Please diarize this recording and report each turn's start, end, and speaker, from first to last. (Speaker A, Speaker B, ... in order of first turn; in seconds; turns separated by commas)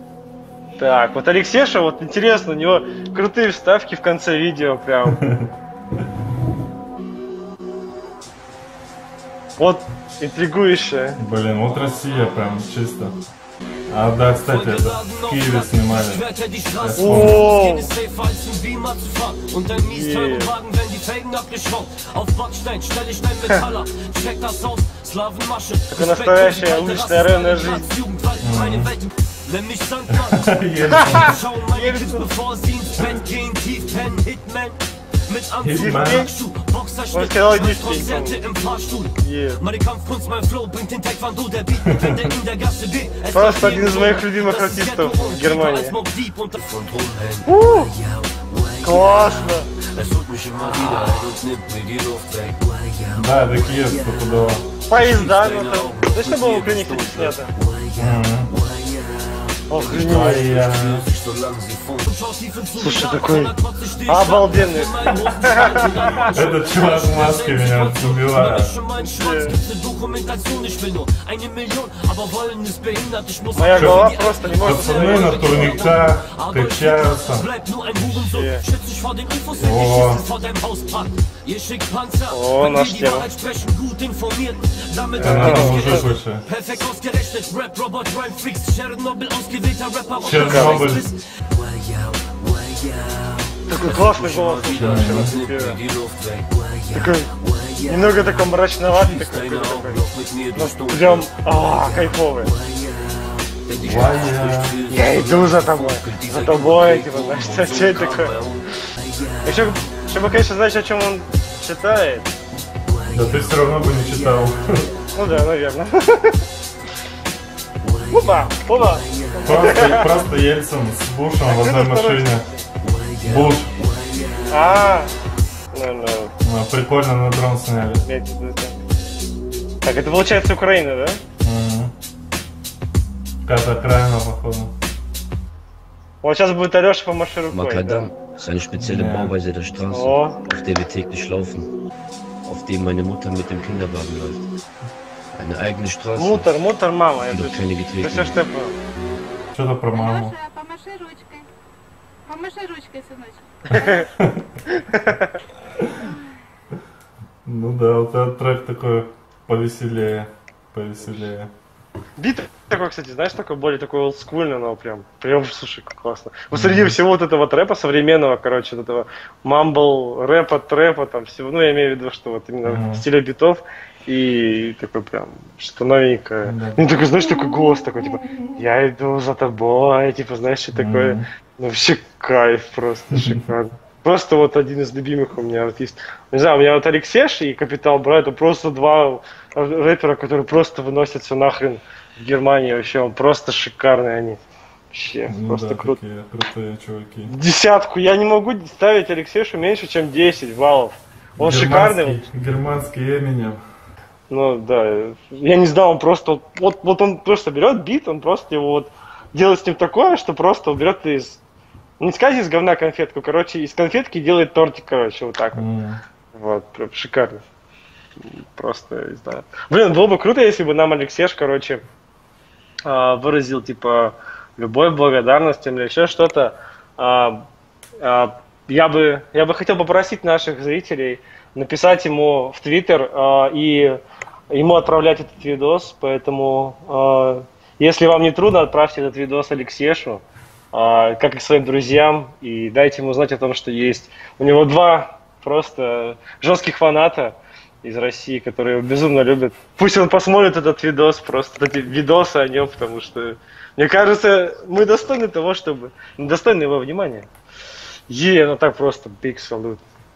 Speaker A: 0.8-5.2, Speaker B: 5.0-5.5, Speaker A: 9.6-11.2, Speaker B: 11.2-13.2, Speaker B: 13.9-16.2, Speaker C: 14.5-46.6, Speaker B: 16.8-17.4, Speaker A: 17.0-17.9, Speaker A: 19.8-20.5, Speaker A: 25.9-27.9, Speaker B: 28.4-28.9, Speaker B: 30.1-31.4, Speaker A: 31.0-32.3, Speaker B: 35.6-36.3, Speaker A: 35.7-36.3, Speaker A: 37.1-38.5, Speaker A: 39.2-39.6, Speaker B: 41.9-42.2, Speaker A: 43.3-46.0, Speaker D: 46.6-54.1, Speaker A: 47.5-48.0, Speaker A: 48.8-49.7, Speaker A: 50.6-51.4, Speaker B: 53.1-54.7, Speaker A: 54.9-57.5, Speaker D: 54.9-62.0, Speaker B: 58.0-58.5, Speaker A: 59.7-60.5, Speaker B: 60.0-61.1, Speaker C: 62.0-91.2, Speaker A: 62.8-66.4, Speaker B: 66.3-68.8, Speaker A: 69.0-69.6, Speaker A: 73.5-75.9, Speaker B: 73.7-77.5, Speaker A: 78.3-78.7, Speaker B: 79.6-80.2, Speaker A: 82.3-83.3, Speaker A: 85.2-86.1, Speaker B: 85.2-86.5, Speaker B: 90.2-91.1, Speaker A: 90.3-91.0, Speaker D: 91.5-98.2, Speaker A: 93.7-95.8, Speaker B: 94.7-95.4, Speaker A: 96.9-97.3, Speaker A: 97.8-102.5, Speaker D: 98.9-108.6, Speaker B: 103.8-104.8, Speaker A: 104.9-108.4, Speaker A: 109.4-112.3, Speaker B: 113.1-114.9, Speaker A: 115.1-116.5, Speaker D: 118.1-118.5, Speaker A: 118.1-120.2, Speaker D: 119.1-119.5, Speaker B: 119.5-122.5, Speaker A: 121.5-122.7, Speaker D: 122.9-123.6, Speaker B: 123.2-123.8, Speaker A: 124.5-125.1, Speaker A: 125.7-126.3, Speaker B: 126.4-128.1, Speaker A: 128.0-128.8, Speaker A: 129.8-131.2, Speaker B: 131.4-131.9, Speaker B: 133.4-134.7, Speaker A: 136.2-138.1, Speaker D: 137.5-141.7, Speaker B: 138.7-139.3, Speaker A: 139.9-140.5, Speaker D: 142.5-144.4, Speaker D: 145.3-146.5, Speaker A: 146.2-148.8, Speaker D: 147.3-148.3, Speaker B: 149.5-150.4, Speaker E: 149.9-151.5, Speaker E: 152.3-153.6, Speaker A: 153.7-154.1, Speaker B: 153.8-154.5, Speaker A: 154.7-155.4, Speaker B: 155.8-156.2, Speaker B: 157.4-161.5, Speaker A: 162.2-194.4, Speaker B: 166.5-167.0, Speaker B: 172.6-173.0, Speaker B: 176.4-176.9, Speaker B: 178.2-178.5, Speaker B: 180.7-181.2, Speaker B: 183.1-183.4, Speaker A: 194.9-196.0, Speaker B: 195.3-197.3, Speaker A: 197.3-202.2, Speaker B: 201.4-203.6, Speaker A: 204.3-211.4, Speaker A: 212.0-215.7, Speaker B: 215.6-216.0, Speaker A: 216.3-217.4, Speaker A: 218.2-221.8, Speaker A: 222.8-227.4, Speaker A: 228.0-257.3, Speaker A: 258.1-259.8